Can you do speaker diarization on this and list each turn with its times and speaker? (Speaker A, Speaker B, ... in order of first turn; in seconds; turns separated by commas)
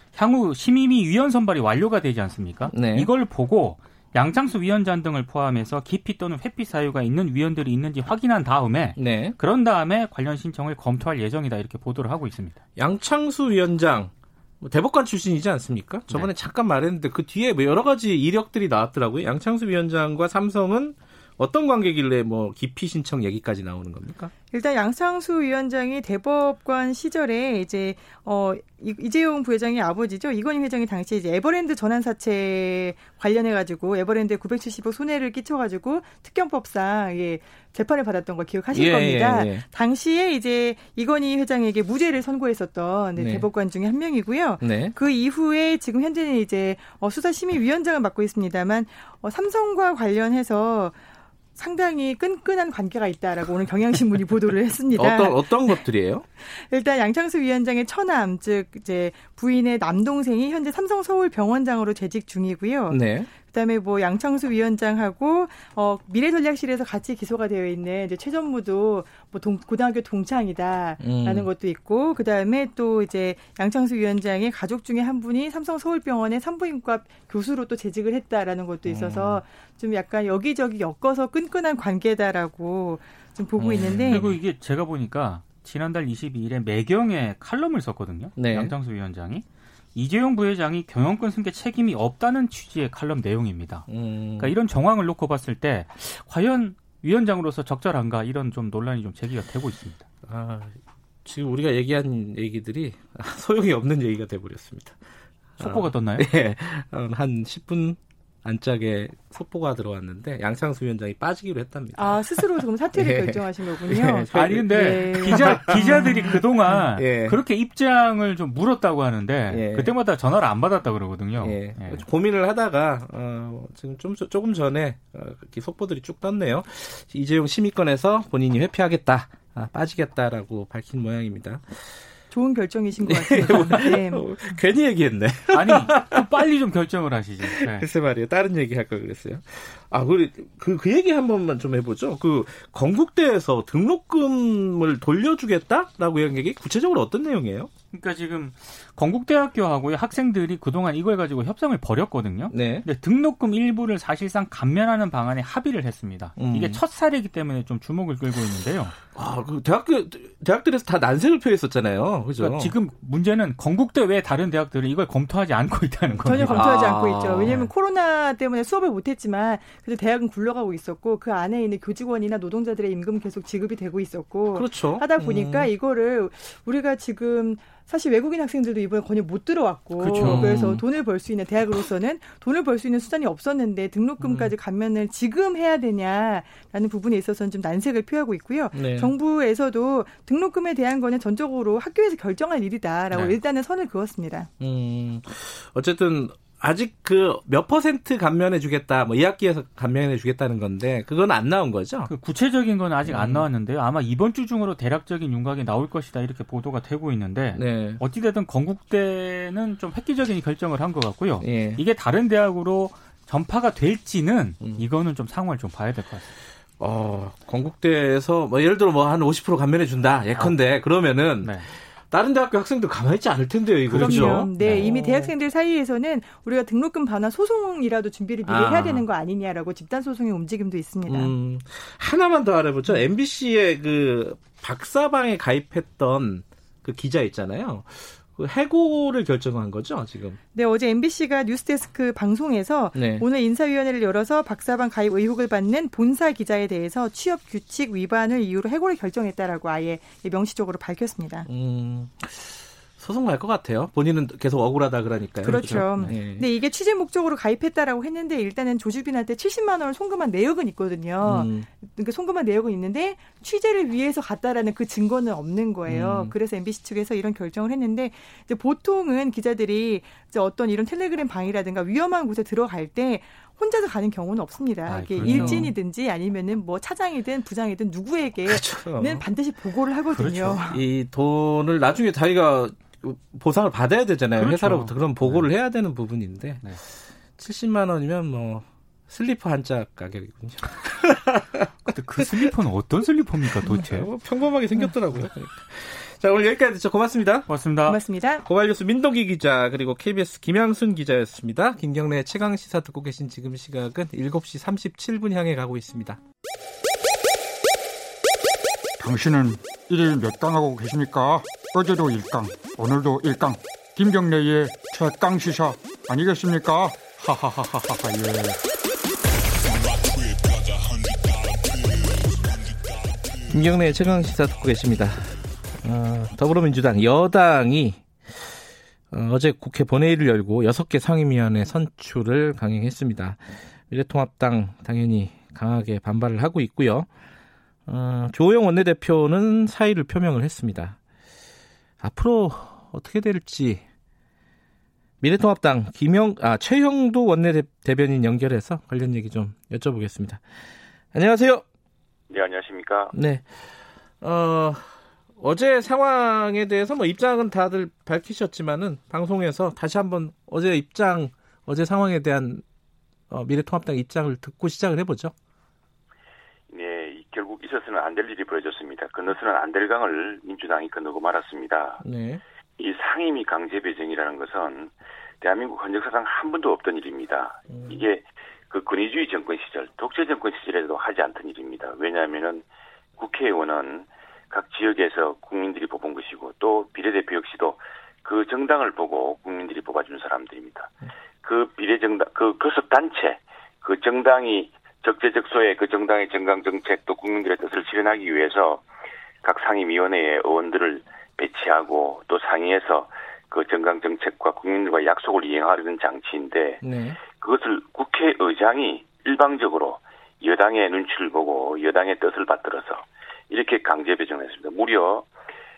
Speaker A: 0.1-12.6, Speaker B: 2.7-3.1, Speaker B: 8.9-9.4, Speaker B: 12.8-24.3, Speaker C: 24.5-51.0, Speaker B: 38.7-39.7, Speaker B: 43.2-43.5, Speaker B: 44.6-45.0, Speaker C: 51.6-55.8, Speaker B: 55.0-56.2, Speaker C: 56.4-84.4, Speaker B: 62.9-63.3, Speaker B: 71.0-71.5, Speaker B: 78.8-79.4, Speaker B: 83.6-84.4, Speaker A: 84.0-100.0, Speaker B: 88.4-88.7, Speaker B: 93.9-94.5, Speaker B: 100.3-105.0, Speaker B: 105.6-117.4, Speaker A: 105.6-106.3, Speaker C: 112.0-116.4, Speaker A: 114.3-122.0, Speaker B: 119.5-120.0, Speaker B: 121.4-132.1, Speaker C: 132.3-134.3, Speaker B: 133.0-136.2, Speaker A: 135.5-137.9, Speaker B: 137.4-147.7, Speaker A: 147.9-159.0, Speaker B: 152.5-152.9, Speaker B: 156.4-156.8, Speaker B: 159.2-162.7, Speaker A: 162.4-167.5, Speaker C: 166.2-194.5, Speaker B: 166.5-167.7, Speaker B: 174.5-175.7, Speaker B: 180.0-180.8, Speaker A: 180.1-180.6, Speaker B: 184.2-184.5, Speaker B: 188.7-189.1, Speaker B: 194.6-202.1, Speaker A: 202.1-216.3, Speaker B: 203.1-203.4, Speaker B: 207.5-208.0, Speaker B: 211.4-211.8, Speaker B: 214.6-214.9, Speaker B: 216.8-225.3, Speaker A: 220.4-220.6, Speaker A: 221.4-221.7, Speaker A: 223.9-224.9, Speaker C: 223.9-231.3, Speaker B: 228.4-229.1, Speaker B: 231.1-240.4, Speaker C: 240.5-251.5, Speaker B: 242.9-243.3, Speaker B: 251.5-256.5, Speaker C: 255.4-280.8, Speaker A: 255.5-256.1, Speaker B: 261.2-261.7, Speaker B: 265.9-266.4, Speaker A: 274.9-275.7, Speaker B: 275.2-275.7, Speaker B: 278.4-279.2, Speaker A: 280.1-280.7, Speaker B: 280.7-292.2, Speaker A: 284.4-285.5, Speaker A: 291.9-294.1, Speaker B: 293.7-297.5, Speaker A: 297.5-298.0, Speaker C: 297.9-298.5, Speaker B: 298.4-306.2, Speaker D: 309.0-318.6, Speaker D: 320.0-320.4, Speaker B: 323.5-325.3, Speaker B: 325.8-337.1, Speaker B: 337.9-341.0, Speaker B: 342.0-343.8, Speaker B: 345.2-351.6, Speaker E: 352.3-353.1, Speaker B: 353.1-362.6, Speaker B: 363.3-365.3, Speaker E: 366.7-372.0, Speaker B: 372.0-372.4, Speaker E: 372.8-382.6, Speaker B: 377.7-378.1, Speaker E: 383.2-398.8, Speaker E: 399.4-415.3, Speaker B: 406.8-407.2